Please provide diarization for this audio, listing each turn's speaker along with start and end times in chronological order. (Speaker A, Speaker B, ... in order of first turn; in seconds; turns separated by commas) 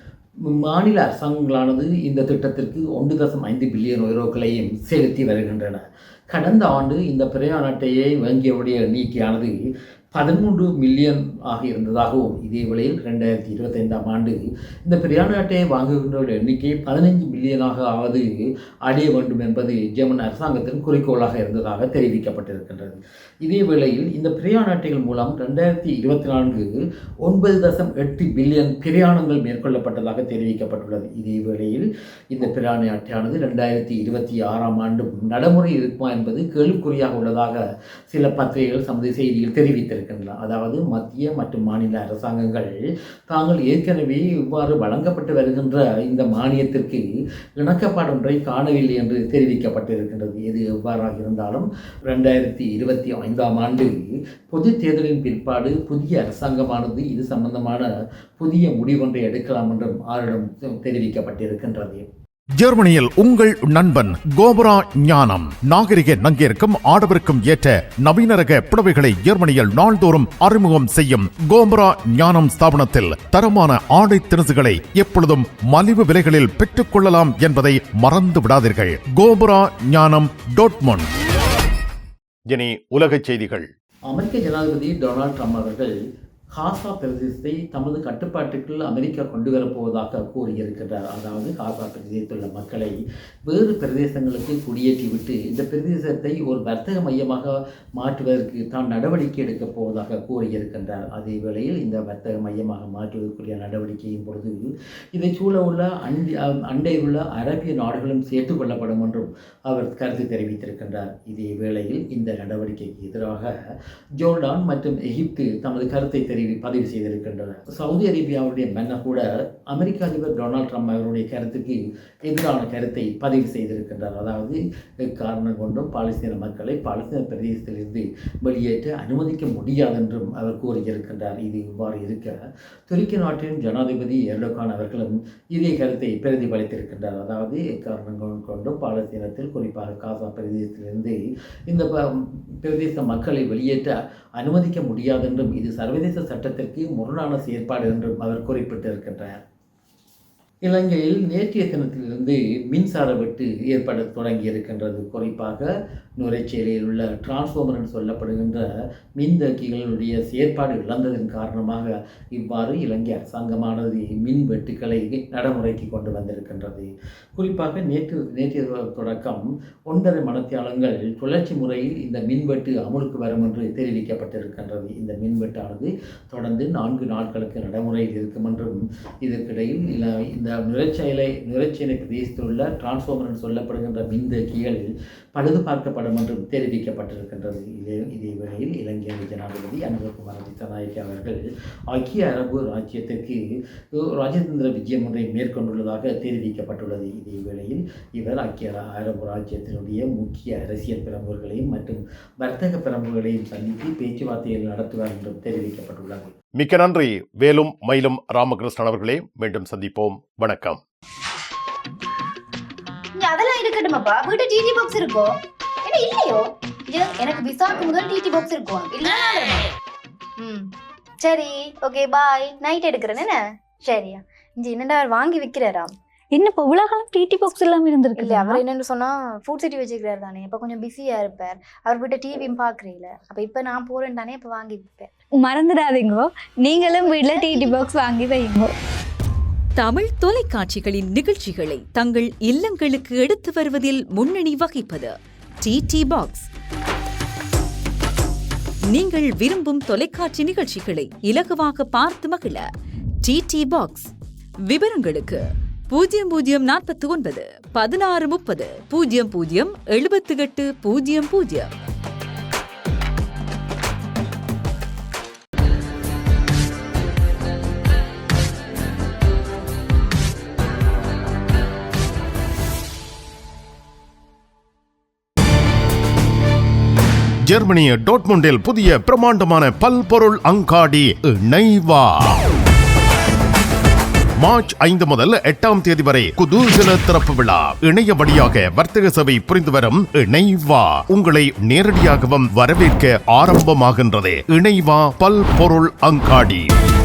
Speaker A: 0.5-9.6, Speaker A: 10.1-18.3, Speaker A: 18.9-42.7, Speaker A: 43.3-47.0, Speaker A: 47.6-57.9, Speaker A: 58.4-62.0, Speaker B: 62.6-81.1, Speaker B: 82.5-83.7, Speaker A: 84.1-85.9, Speaker A: 86.5-104.6, Speaker A: 105.1-113.5, Speaker A: 114.2-132.4, Speaker A: 132.9-141.2, Speaker A: 141.7-149.4, Speaker A: 150.6-158.6, Speaker A: 159.2-193.4, Speaker A: 193.9-206.3, Speaker B: 206.5-210.8, Speaker C: 213.1-219.7, Speaker C: 220.4-225.9, Speaker D: 226.3-228.6, Speaker C: 228.2-235.1, Speaker D: 235.4-238.7, Speaker C: 236.7-237.9, Speaker E: 239.8-246.5, Speaker E: 248.9-252.7, Speaker E: 253.2-254.1, Speaker E: 254.7-261.7, Speaker B: 277.4-282.4, Speaker B: 284.4-296.7